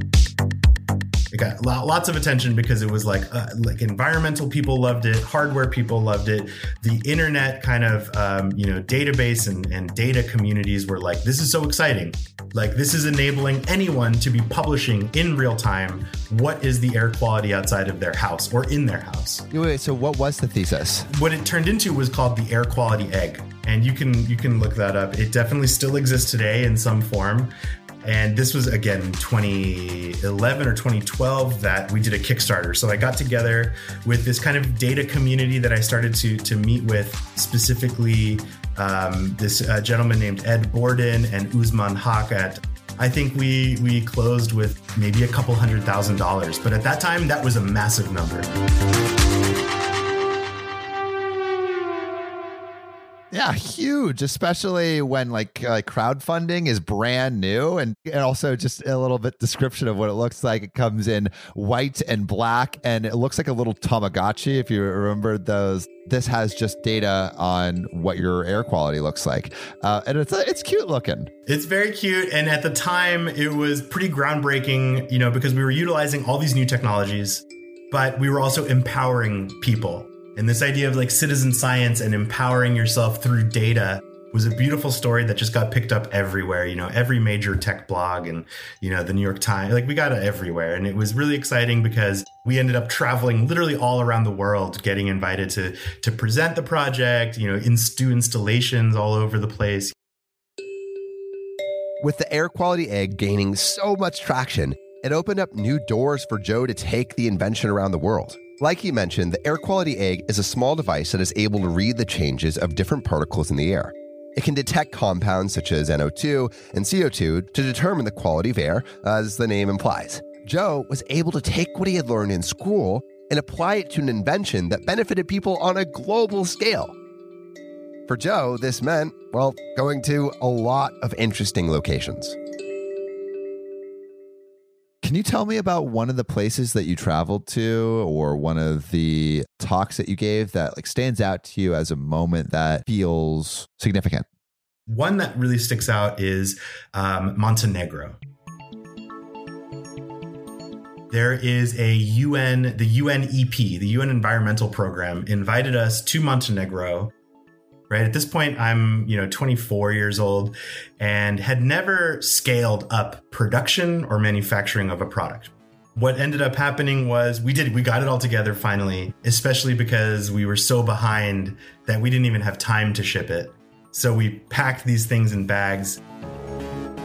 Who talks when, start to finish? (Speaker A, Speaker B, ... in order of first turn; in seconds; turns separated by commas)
Speaker A: 1.3-19.4, Speaker B: 19.5-21.1, Speaker A: 21.1-48.5, Speaker B: 53.3-71.3, Speaker A: 71.5-99.9, Speaker C: 102.0-126.9, Speaker C: 128.1-132.3, Speaker B: 135.0-144.3, Speaker A: 144.9-148.2, Speaker A: 151.1-157.1, Speaker A: 157.9-176.0